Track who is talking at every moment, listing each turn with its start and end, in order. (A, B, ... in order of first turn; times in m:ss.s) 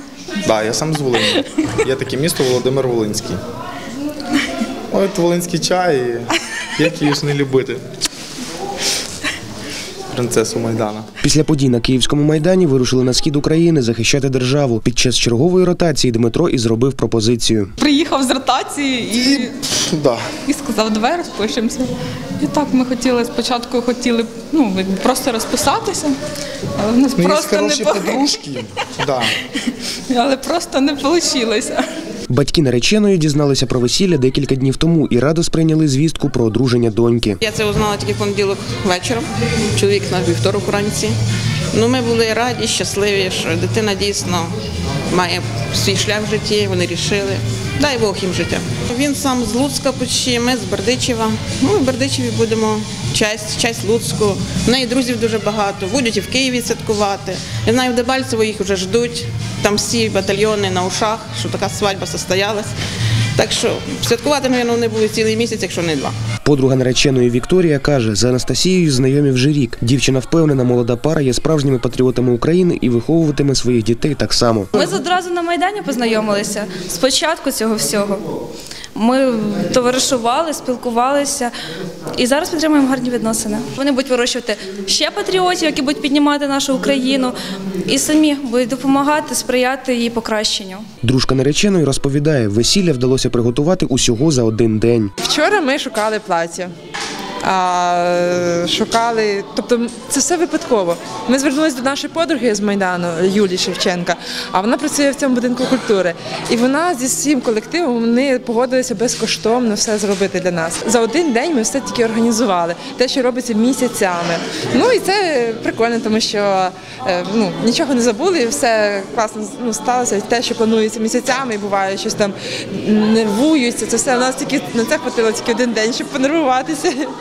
0:00.4-0:03.4 A
0:04.9-0:07.8 A
0:10.1-0:11.1 A
0:11.2-0:17.7 B
0:17.8-0:19.5 C
0:19.3-0:20.2 A
0:20.4-0:26.2 C
0:26.8-0:28.3 C
0:27.2-0:29.3 A
0:30.1-0:31.8 C
0:32.3-0:37.4 B
0:37.4-0:41.2 D
0:41.7-0:44.5 D
0:45.1-1:02.7 D
1:03.4-1:06.2 D
1:06.4-1:14.7 B
1:14.7-1:18.3 E
1:19.0-1:21.5 E
1:22.2-1:30.9 E
1:31.0-1:35.1 B
1:35.2-1:36.7 F
1:37.4-2:07.1 F